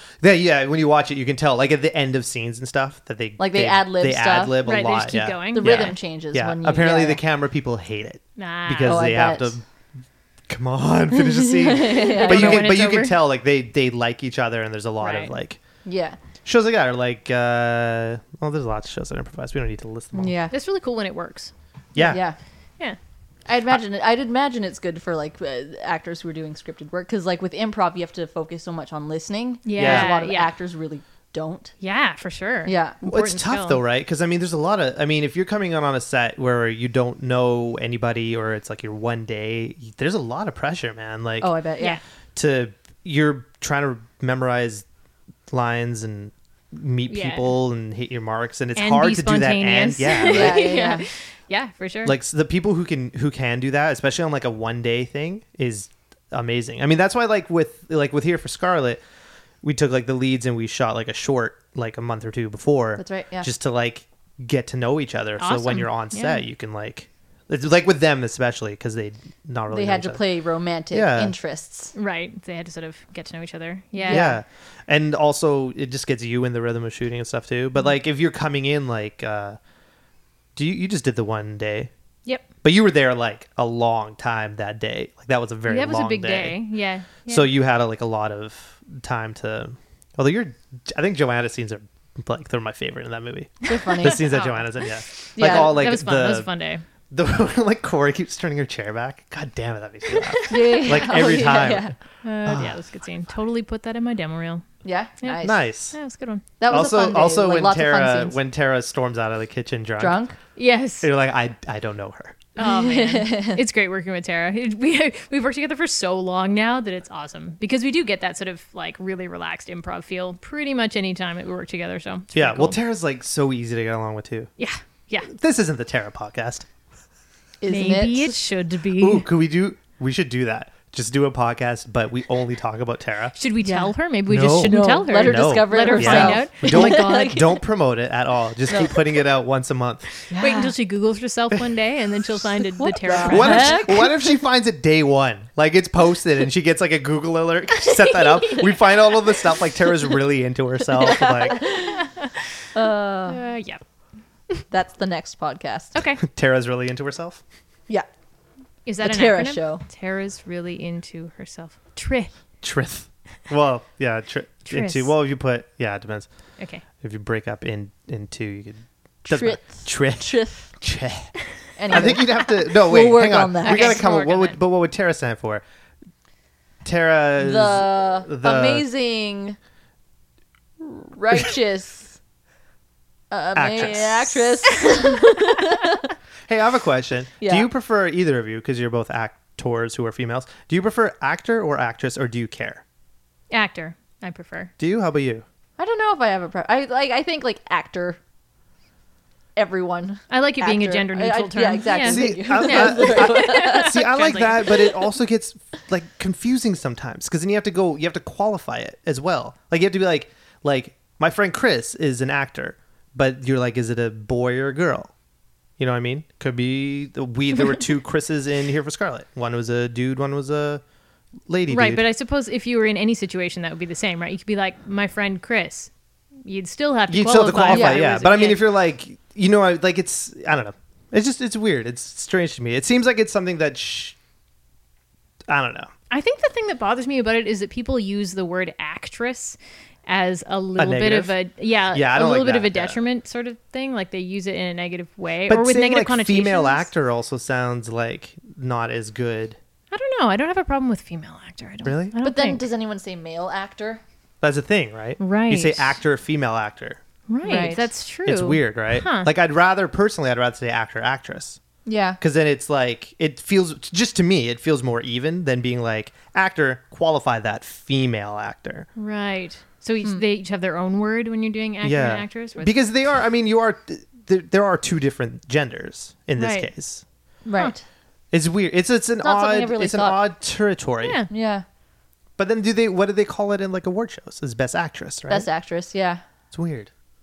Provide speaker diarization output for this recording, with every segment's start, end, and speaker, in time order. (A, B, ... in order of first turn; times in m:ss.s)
0:00.2-0:09.6 A
0:03.4-0:04.6 B
0:04.6-0:06.0 C
0:05.5-0:07.2 B
0:08.4-0:09.0 C
0:08.8-0:09.6 B
0:10.5-0:15.6 A
0:11.4-0:12.7 B
0:11.9-0:13.2 C
0:15.0-0:15.3 C
0:15.8-0:16.2 B
0:16.5-0:20.4 A
0:20.1-0:20.5 B
0:20.5-0:21.5 C
0:22.0-0:22.2 A
0:22.0-0:22.4 B
0:23.5-0:31.7 B
0:29.7-0:30.5 C
0:29.8-0:30.1 A
0:31.8-0:33.8 C
0:32.6-0:33.0 B
0:33.1-0:41.5 A
0:41.4-0:42.0 B
0:42.4-0:44.8 A
0:45.5-0:50.6 A
0:47.1-0:47.5 C
0:48.8-0:52.1 C
0:50.2-0:51.1 B
0:52.0-0:59.0 A
0:59.6-1:10.2 A
1:03.0-1:03.5 B
1:05.4-1:06.4 C
1:09.7-1:11.9 B
1:10.9-1:11.4 A
1:11.9-1:14.3 C
1:14.0-1:14.4 B
1:14.1-1:19.6 A
1:20.6-1:21.9 A
1:22.6-1:26.6 A
1:25.7-1:27.5 C
1:27.3-1:36.5 A
1:33.6-1:34.3 B
1:34.0-1:36.8 C
1:35.4-1:35.8 B
1:37.1-1:41.9 A
1:40.2-1:40.9 C
1:40.5-1:42.0 B
1:42.2-1:44.6 C
1:42.4-1:42.8 A
1:44.8-1:45.6 B
1:45.2-1:46.4 C
1:45.4-1:46.0 A
1:46.6-1:48.4 B
1:46.7-1:50.2 A
1:50.0-1:50.4 B
1:50.6-1:51.1 C
1:51.0-1:52.4 A
1:52.6-2:02.8 C
1:52.6-1:53.6 B
2:02.3-2:04.5 A
2:04.6-2:05.3 C
2:05.2-2:06.7 A
2:07.6-2:08.4 B
2:07.7-2:09.3 C
2:09.0-2:13.4 A
2:13.4-2:17.6 C
2:13.6-2:13.9 B
2:14.3-2:20.1 A
2:14.5-2:17.6 B
2:18.7-2:19.0 B
2:20.3-2:20.8 B
2:20.3-2:24.0 C
2:22.8-2:24.2 B
2:23.2-2:31.6 A
2:27.8-2:29.1 C
2:30.9-2:32.1 B
2:31.8-2:32.7 C
2:32.7-2:33.4 B
2:33.3-2:33.8 C
2:34.7-2:36.0 B
2:36.0-2:36.2 C
2:36.2-2:37.4 A
2:38.9-2:42.3 C
2:39.0-2:39.8 B
2:42.6-2:46.3 A
2:44.7-2:45.1 C
2:46.6-2:46.8 C
2:47.0-2:51.4 A
2:49.3-2:50.7 B
2:51.8-2:54.0 B
2:51.9-2:55.6 A
2:53.6-2:54.6 C
2:56.8-2:58.8 A
2:57.4-2:59.6 B
3:00.8-3:02.2 B
3:03.3-3:06.0 B
3:03.6-3:04.6 A
3:06.5-3:12.8 A
3:07.4-3:07.7 B
3:13.5-3:14.7 C
3:14.8-3:15.4 A
3:15.8-3:18.2 B
3:19.6-3:24.1 B
3:20.3-3:25.0 C
3:22.0-3:35.1 A
3:35.8-3:40.8 A
3:41.5-3:42.0 A
3:41.7-3:45.9 C
3:46.4-3:48.7 C
3:47.1-3:54.2 A
3:47.7-3:48.1 B
3:55.5-3:55.9 A
3:56.1-4:06.9 C
4:00.8-4:01.4 A
4:01.9-4:03.0 A
4:05.5-4:09.6 A
4:09.9-4:12.6 C
4:11.8-4:12.2 A
4:12.2-4:14.0 B
4:14.4-4:17.0 A
4:15.2-4:16.0 C
4:17.3-4:19.3 C
4:17.4-4:17.9 B
4:18.2-4:21.6 A
4:21.8-4:22.2 B
4:22.2-4:28.9 A
4:29.0-4:32.7 C
4:31.8-4:37.0 A
4:36.4-4:36.7 C
4:37.4-4:37.8 B
4:38.3-4:41.2 A
4:39.2-4:40.2 B
4:41.0-4:41.3 C
4:41.3-4:41.6 B
4:42.4-4:45.5 A
4:45.3-4:46.2 B
4:46.5-4:46.9 A